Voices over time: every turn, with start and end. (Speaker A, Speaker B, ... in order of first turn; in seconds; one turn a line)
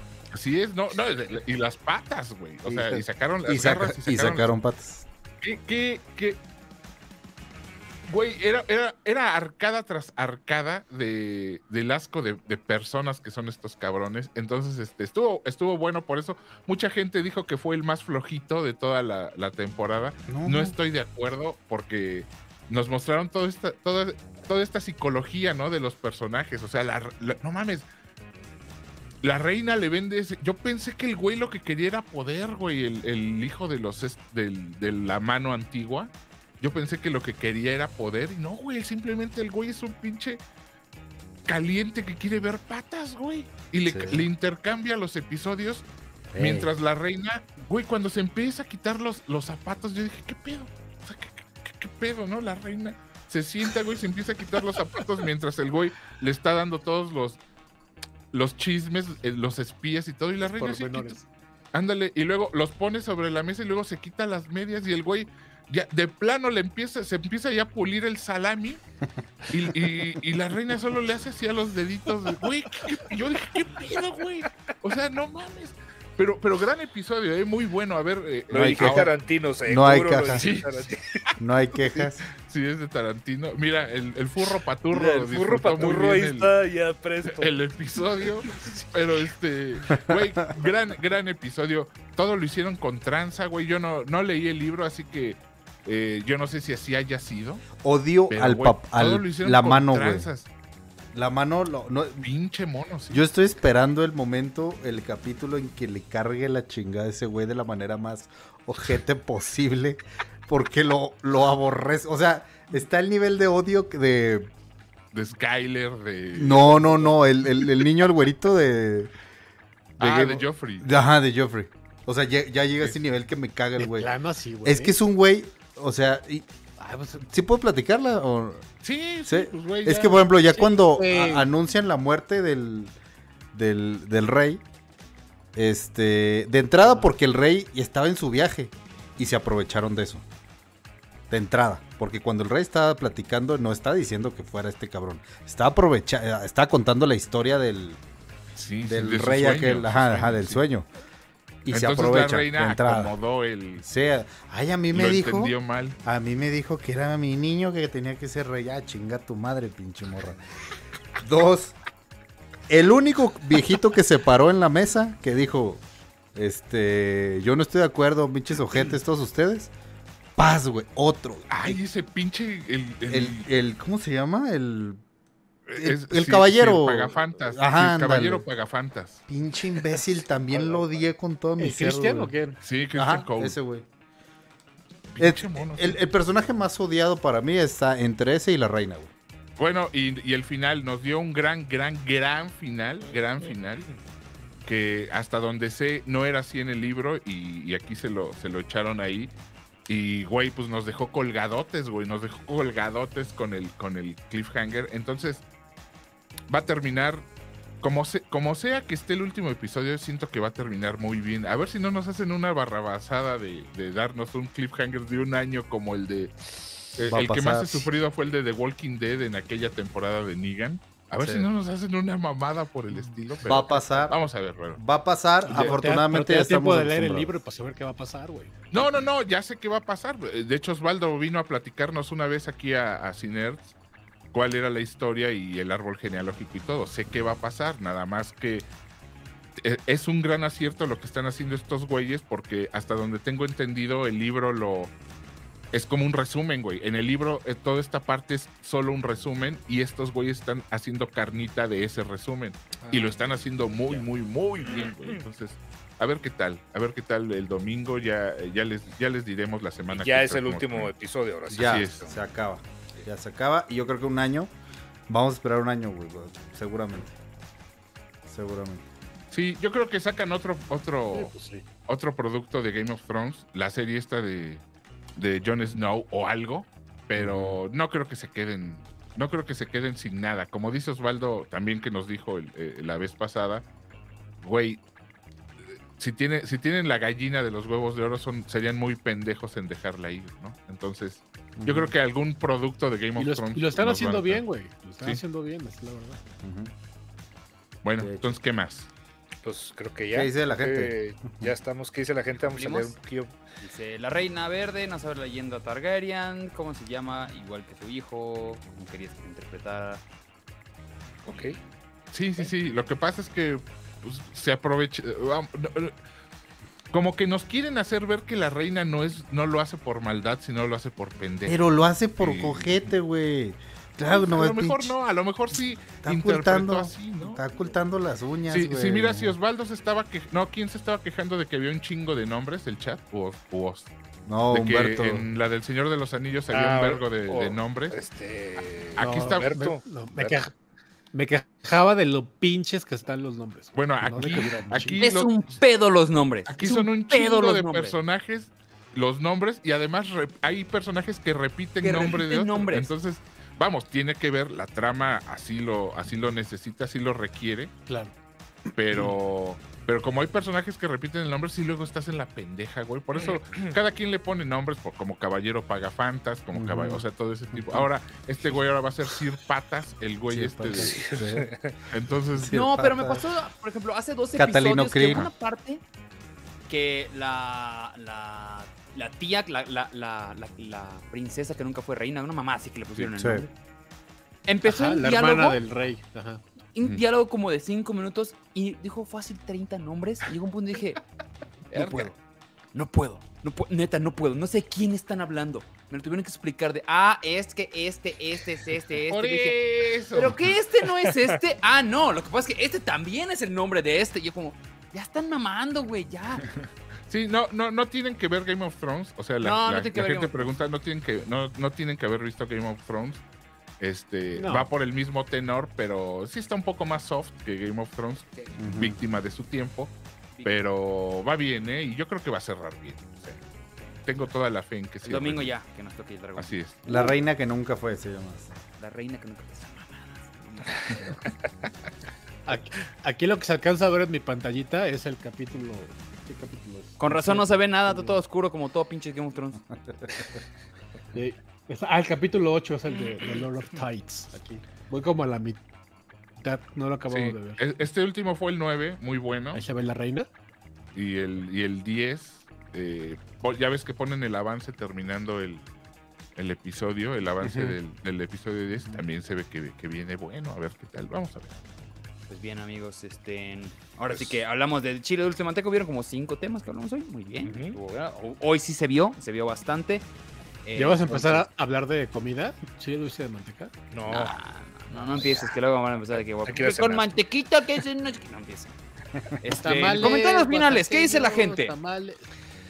Speaker A: 0.3-4.5
Speaker B: 2.6-5.0
Speaker A: 5.4-6.4
Speaker A: 8.1-27.8
Speaker B: 20.3-20.8
Speaker A: 29.2-40.4
Speaker A: 41.5-45.8
Speaker B: 43.9-44.3
Speaker B: 46.3-46.7
Speaker A: 46.4-57.4
Speaker A: 58.3-61.2
Speaker C: 60.4-61.2
Speaker A: 61.7-68.8
Speaker A: 69.5-79.1
Speaker D: 78.5-81.0
Speaker B: 78.7-79.1
Speaker B: 79.6-80.5
Speaker A: 80.3-80.7
Speaker B: 81.4-82.2
Speaker A: 82.0-86.5
Speaker D: 84.9-87.5
Speaker A: 87.2-97.7
Speaker B: 97.8-100.3
Speaker A: 98.3-100.5
Speaker B: 101.1-102.3
Speaker A: 102.2-103.2
Speaker B: 103.1-114.5
Speaker A: 115.1-117.2
Speaker B: 116.3-119.1
Speaker A: 120.0-120.9
Speaker B: 120.0-124.1
Speaker C: 123.8-124.9
Speaker B: 124.6-126.5
Speaker C: 126.8-127.2
Speaker B: 127.2-128.7
Speaker A: 128.8-130.3
Speaker B: 129.2-132.9
Speaker C: 130.6-131.5
Speaker B: 133.5-134.6
Speaker B: 135.5-140.2
Speaker C: 136.8-137.1
Speaker B: 141.3-148.0
Speaker A: 148.5-150.6
Speaker B: 148.8-150.9
Speaker B: 151.6-153.1
Speaker A: 151.7-153.8
Speaker B: 153.8-160.4
Speaker A: 154.9-156.0
Speaker B: 161.2-161.7
Speaker B: 162.7-165.8
Speaker B: 166.3-169.7
Speaker B: 170.4-171.8
Speaker A: 171.5-173.4
Speaker B: 173.1-175.0
Speaker A: 175.7-179.2
Speaker B: 175.8-178.5
Speaker B: 179.3-182.3
Speaker C: 180.5-182.6
Speaker A: 182.6-183.6
Speaker B: 182.9-183.8
Speaker A: 185.1-186.0
Speaker B: 185.2-189.1
Speaker A: 189.6-193.9
Speaker D: 193.4-194.0
Speaker A: 194.7-199.3
Speaker A: 199.9-205.4
Speaker A: 206.5-207.2
Speaker A: 207.8-216.3
Speaker A: 216.9-224.8
Speaker B: 217.0-217.9
Speaker B: 221.2-221.5
Speaker B: 223.4-224.2
Speaker C: 223.5-224.1
Speaker B: 224.7-227.4
Speaker C: 225.4-228.9
Speaker A: 225.5-225.8
Speaker A: 228.7-233.7
Speaker A: 234.3-238.7
Speaker A: 239.6-244.9
Speaker A: 245.7-260.9
Speaker D: 252.8-254.1
Speaker D: 254.7-255.2
Speaker D: 259.9-262.1
Speaker A: 261.5-262.1
Speaker B: 261.5-264.5
Speaker B: 265.1-267.1
Speaker B: 268.2-268.8
Speaker A: 269.3-271.3
Speaker C: 271.1-271.6
Speaker A: 271.9-274.6
Speaker A: 275.2-283.6
Speaker B: 277.2-277.6
Speaker A: 284.4-284.8
Speaker A: 285.7-294.4
Speaker B: 291.6-291.9
Speaker C: 293.1-296.2
Speaker B: 296.4-296.7
Speaker A: 297.8-298.9
Speaker B: 298.0-298.3
Speaker D: 299.4-303.3
Speaker B: 300.1-301.5
Speaker E: 302.5-302.9
Speaker E: 303.6-310.0
Speaker D: 311.2-311.6
Speaker E: 311.3-311.6
Speaker A: 312.1-315.9
Speaker A: 316.9-321.6
Speaker B: 321.4-325.0
Speaker A: 322.2-322.9
Speaker A: 324.1-327.4
Speaker B: 326.0-329.4
Speaker A: 328.5-333.9
Speaker B: 334.2-335.3
Speaker A: 334.5-338.0
Speaker D: 336.5-340.4
Speaker A: 338.9-339.6
Speaker C: 339.0-340.5
Speaker C: 341.1-345.0
Speaker A: 343.7-345.4
Speaker E: 344.8-347.9
Speaker A: 346.5-357.7
Speaker E: 351.8-352.9
Speaker C: 357.9-358.1
Speaker A: 358.7-371.1
Speaker D: 363.1-363.7
Speaker B: 366.5-367.9
Speaker B: 370.3-371.5
Speaker D: 370.7-371.7
Speaker A: 371.9-372.6
Speaker B: 372.3-373.3
Speaker E: 372.5-375.8
Speaker B: 374.4-375.3
Speaker A: 375.0-375.3
Speaker E: 376.7-383.5
Speaker B: 383.2-383.4
Speaker E: 384.5-385.6
Speaker C: 384.6-386.4
Speaker E: 386.7-391.0
Speaker E: 391.7-392.1
Speaker C: 391.8-392.1
Speaker E: 392.7-399.6
Speaker A: 399.1-400.5
Speaker E: 400.1-406.4
Speaker A: 407.1-413.2
Speaker E: 409.4-410.4
Speaker A: 413.8-423.1
Speaker C: 414.4-414.7
Speaker B: 418.6-419.0
Speaker E: 420.3-420.6
Speaker A: 424.0-425.5
Speaker E: 425.0-426.6
Speaker A: 426.4-426.8
Speaker B: 426.9-428.6
Speaker E: 428.8-431.2
Speaker C: 432.4-438.2
Speaker E: 437.0-439.6
Speaker C: 441.1-445.6
Speaker E: 443.0-443.4
Speaker C: 446.4-447.6
Speaker A: 447.1-449.6
Speaker C: 449.5-450.3
Speaker A: 450.9-455.6
Speaker A: 456.4-461.5
Speaker C: 457.4-457.8
Speaker E: 462.3-470.1
Speaker D: 467.4-467.8
Speaker E: 470.6-471.4
Speaker C: 470.8-473.7
Speaker D: 473.9-474.3
Speaker E: 474.1-478.7
Speaker D: 474.9-475.4
Speaker D: 476.4-477.2
Speaker E: 479.3-481.7
Speaker C: 479.5-482.2